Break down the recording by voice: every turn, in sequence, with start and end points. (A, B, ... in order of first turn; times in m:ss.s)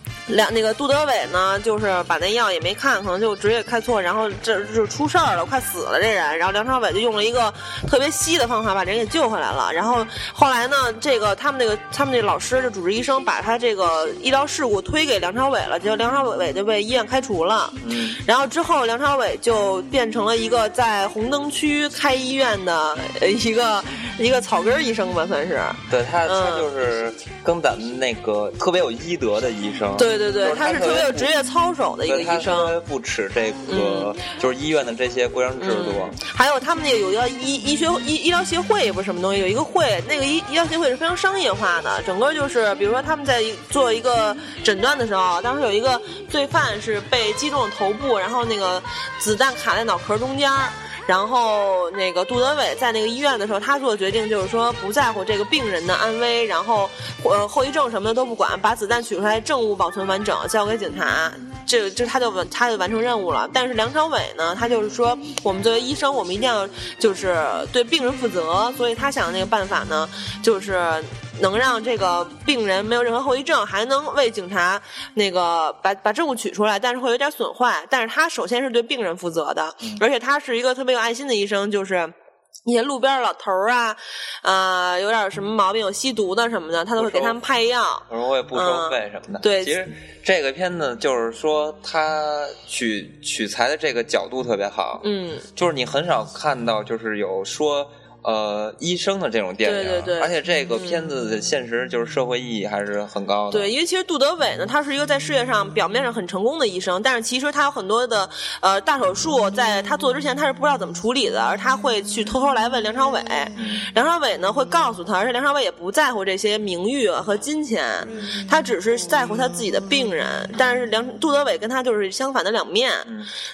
0:00.3-0:26.7 A
0:17.8-0:18.2 B
0:25.9-0:31.3 B
0:30.0-0:32.7 A
0:32.0-0:36.2 B
0:33.7-0:34.1 A
0:35.6-1:22.1 A
1:22.6-1:29.8 A
1:27.0-1:27.4 B
1:28.1-1:43.7 B
1:35.0-1:35.4 A
1:39.6-1:41.0 A
1:43.5-2:03.1 A
1:53.6-1:53.9 B
2:03.0-2:03.3 B